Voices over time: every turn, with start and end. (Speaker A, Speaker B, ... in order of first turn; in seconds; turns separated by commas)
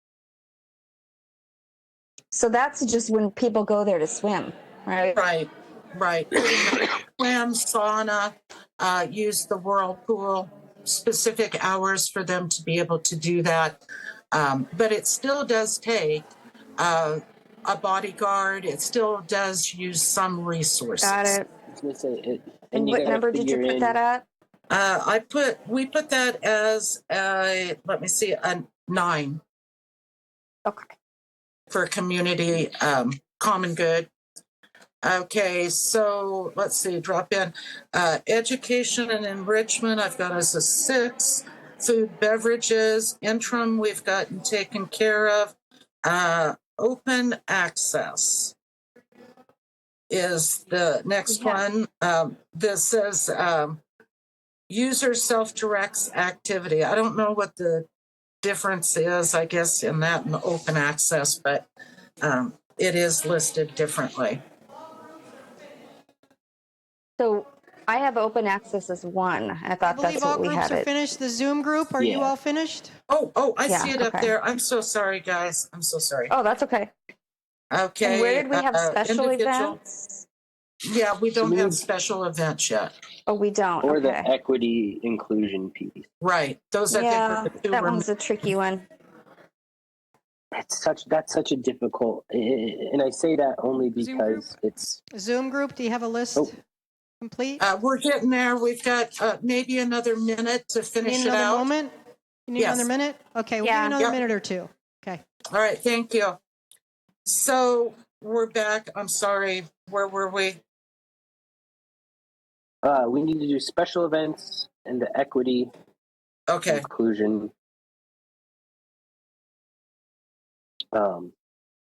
Speaker A: 2.3-5.2, Speaker B: 5.2-13.8, Speaker B: 14.3-21.4, Speaker A: 21.0-21.5, Speaker C: 21.7-24.0, Speaker A: 22.7-24.2, Speaker B: 24.7-29.4, Speaker A: 30.7-30.9, Speaker B: 31.7-34.1, Speaker B: 35.0-48.5, Speaker B: 50.1-53.8, Speaker A: 51.3-51.6, Speaker B: 54.7-57.9, Speaker B: 58.4-61.7, Speaker B: 62.2-64.4, Speaker A: 67.2-70.9, Speaker D: 69.8-72.9, Speaker C: 72.0-72.3, Speaker B: 73.1-76.3, Speaker A: 73.7-74.3, Speaker A: 76.3-76.9, Speaker B: 77.7-79.8, Speaker A: 78.0-80.2, Speaker B: 80.9-82.9, Speaker C: 81.4-81.8, Speaker A: 83.3-84.3, Speaker C: 83.8-86.1, Speaker B: 86.2-88.1, Speaker A: 86.9-88.9, Speaker C: 90.6-95.0, Speaker D: 94.0-94.5, Speaker D: 95.1-96.6, Speaker D: 97.2-97.6, Speaker B: 97.6-101.7, Speaker D: 101.0-101.9, Speaker D: 102.5-105.2, Speaker B: 102.6-102.9, Speaker A: 103.6-104.0, Speaker B: 105.5-106.4, Speaker B: 107.2-110.6, Speaker C: 112.8-115.7, Speaker B: 116.5-116.9, Speaker C: 116.7-117.5, Speaker C: 120.9-121.3